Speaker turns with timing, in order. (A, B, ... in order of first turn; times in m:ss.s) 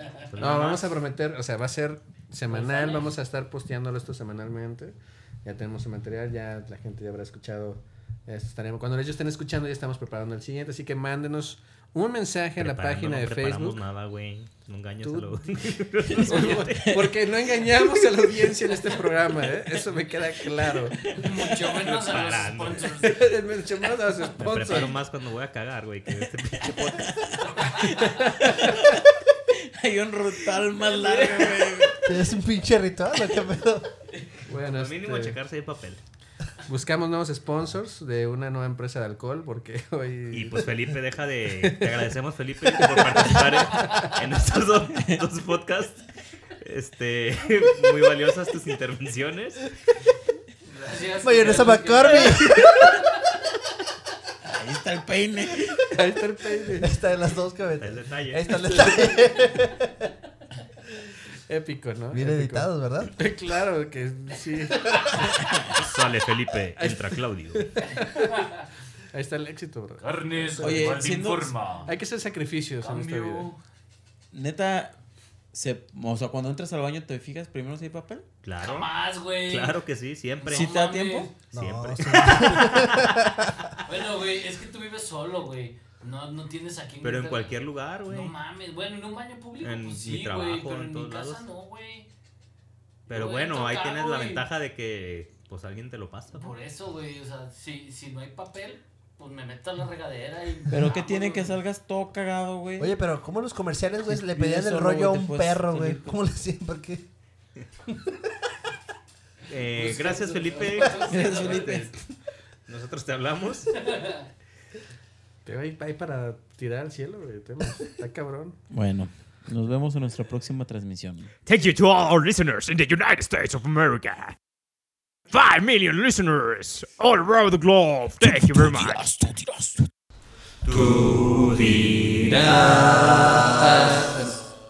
0:00.3-0:00.9 A
0:00.4-0:13.8 B
0:02.4-0:03.1 C
0:12.6-0:17.4 A
0:15.0-0:21.1 B
0:21.1-0:23.2 C
0:21.7-0:22.9 A
0:23.0-0:25.0 B
0:24.4-0:27.1 A
0:26.6-0:32.1 D
0:27.5-0:27.8 C
0:28.0-0:28.8 B
0:30.8-0:31.9 C
0:32.0-0:33.9 E
0:34.4-0:35.3 B
0:34.7-0:36.0 A
0:36.6-0:40.8 B
0:40.3-0:46.0 A
0:41.6-0:41.9 B
0:42.6-0:44.1 B
0:43.8-0:44.1 C
0:46.6-0:49.7 A
0:50.6-0:52.4 C
0:51.2-0:52.7 E
0:54.4-0:55.8 D
0:55.9-0:56.9 B
0:56.8-1:00.1 E
0:57.8-0:58.7 A
0:58.7-0:59.0 B
1:01.4-1:05.4 B
1:02.1-1:03.1 E
1:05.4-1:05.7 D
1:05.7-1:07.6 A
1:06.8-1:08.5 B
1:08.3-1:08.6 C
1:09.1-1:10.9 B
1:10.0-1:11.9 C
1:10.6-1:11.5 D
1:11.8-1:13.5 B
1:12.8-1:13.6 C
1:14.3-1:14.9 D
1:15.5-1:18.3 D
1:18.4-1:18.9 A
1:18.6-1:19.8 C
1:19.4-1:20.7 A
1:20.4-1:21.3 C
1:20.5-1:21.3 D
1:21.5-1:23.5 E
1:21.5-1:23.2 A
1:23.8-1:32.1 C
1:27.0-1:28.3 A
1:29.6-1:31.4 A
1:33.1-1:34.4 C
1:33.1-1:36.6 A
1:36.4-1:41.6 C
1:40.7-1:42.9 D
1:42.8-1:47.0 E
1:44.1-1:46.2 D
1:47.9-1:48.2 E
1:49.5-1:51.6 A
1:49.7-1:52.0 C
1:51.1-1:52.0 D
1:52.7-1:53.7 A
1:53.8-1:54.3 C
1:55.4-1:58.6 B
1:58.7-2:01.3 D
2:01.4-2:04.4 F
2:05.3-2:09.8 F
2:08.4-2:09.0 D
2:10.6-2:12.6 A
2:12.3-2:14.3 F